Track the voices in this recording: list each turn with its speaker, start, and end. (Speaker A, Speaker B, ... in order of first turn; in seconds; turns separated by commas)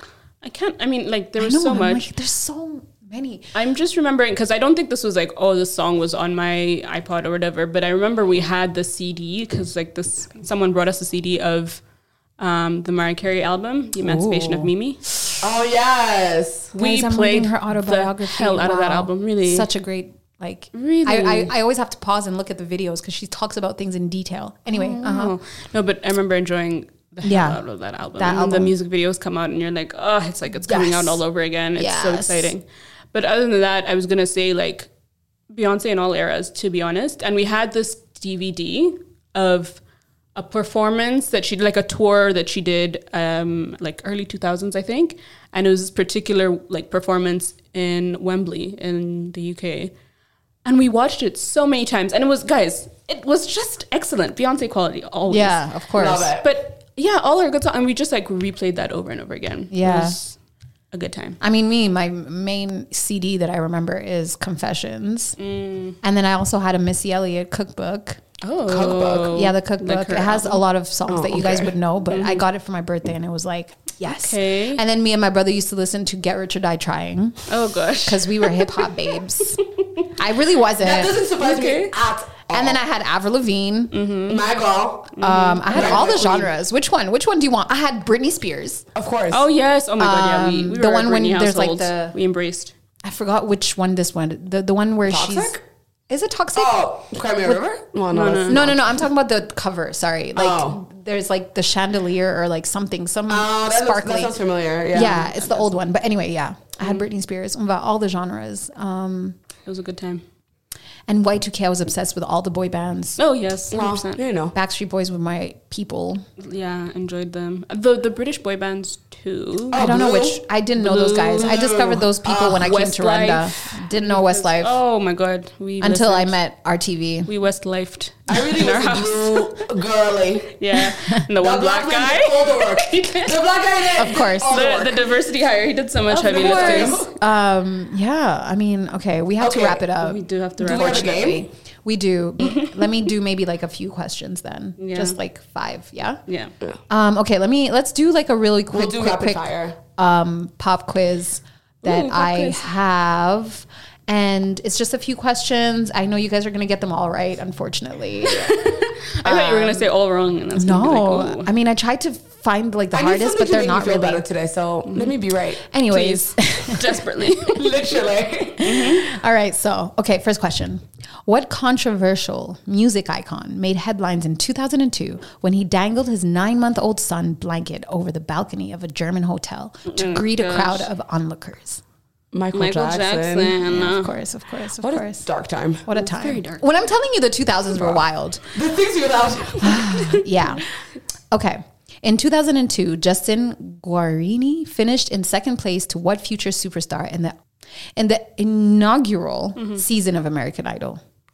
Speaker A: 0.4-2.1, Speaker B: 1.4-3.5, Speaker A: 3.5-11.8, Speaker A: 12.4-15.0, Speaker B: 14.0-14.7, Speaker C: 15.4-16.8, Speaker A: 16.8-19.7, Speaker B: 16.8-25.4, Speaker A: 20.7-21.5, Speaker A: 24.7-32.6, Speaker B: 27.2-27.6, Speaker B: 28.2-28.7, Speaker B: 30.6-31.2, Speaker B: 31.8-32.5, Speaker A: 33.1-34.9, Speaker A: 35.5-39.8, Speaker A: 40.4-49.9, Speaker A: 50.6-55.6, Speaker B: 55.3-56.4, Speaker C: 56.0-56.5, Speaker A: 56.4-60.4, Speaker B: 59.7-60.2, Speaker A: 60.9-61.4, Speaker B: 61.4-65.4, Speaker A: 65.4-66.0, Speaker B: 66.0-68.2, Speaker A: 68.4-70.7, Speaker C: 68.7-69.5, Speaker B: 69.3-77.5, Speaker C: 71.1-71.7, Speaker A: 72.1-72.5, Speaker A: 74.0-74.8, Speaker A: 77.5-78.9, Speaker B: 78.0-79.6, Speaker B: 80.2-81.2, Speaker C: 80.8-82.8, Speaker A: 81.4-82.0, Speaker B: 82.5-84.0, Speaker A: 83.9-84.5, Speaker C: 84.3-85.2, Speaker A: 85.2-86.0, Speaker B: 85.2-88.8, Speaker C: 85.7-86.5, Speaker C: 89.0-89.5, Speaker A: 89.3-92.7, Speaker B: 90.0-92.2, Speaker B: 93.0-95.5, Speaker C: 95.1-95.6, Speaker B: 96.1-96.8, Speaker C: 96.6-98.8, Speaker A: 98.1-98.6, Speaker B: 98.5-104.4, Speaker C: 100.3-100.8, Speaker C: 103.3-105.7, Speaker B: 104.9-109.4, Speaker A: 109.7-110.2, Speaker B: 111.1-113.2, Speaker A: 113.2-114.2, Speaker C: 113.7-114.5, Speaker B: 114.5-116.2, Speaker A: 116.4-119.8, Speaker C: 119.7-120.4, Speaker B: 119.7-124.8, Speaker A: 120.8-121.5, Speaker C: 121.3-122.7, Speaker A: 122.6-126.3, Speaker B: 125.8-127.3, Speaker A: 127.3-129.7, Speaker C: 128.3-130.5, Speaker A: 130.5-133.4, Speaker C: 131.3-135.1, Speaker B: 134.0-134.6, Speaker A: 134.1-137.1, Speaker B: 136.1-146.2, Speaker C: 136.2-137.1, Speaker C: 139.4-139.9, Speaker A: 140.0-141.3, Speaker C: 140.6-141.5, Speaker A: 142.4-142.9, Speaker A: 144.8-145.2, Speaker A: 146.3-146.5, Speaker B: 146.9-159.9, Speaker C: 148.7-149.8, Speaker A: 151.8-152.7, Speaker A: 158.3-161.5, Speaker B: 160.6-164.2, Speaker C: 162.9-165.6, Speaker A: 164.9-165.2, Speaker B: 165.7-167.0, Speaker A: 165.9-167.8, Speaker C: 167.5-168.7, Speaker A: 168.6-169.1, Speaker B: 168.6-181.8, Speaker A: 179.9-180.9, Speaker C: 182.3-183.6, Speaker A: 182.5-184.1, Speaker B: 183.6-185.3, Speaker C: 184.8-185.9, Speaker B: 185.9-188.4, Speaker A: 185.9-186.6, Speaker C: 188.5-190.1, Speaker B: 189.6-190.6, Speaker B: 191.3-197.4, Speaker B: 198.0-201.0, Speaker A: 199.6-199.8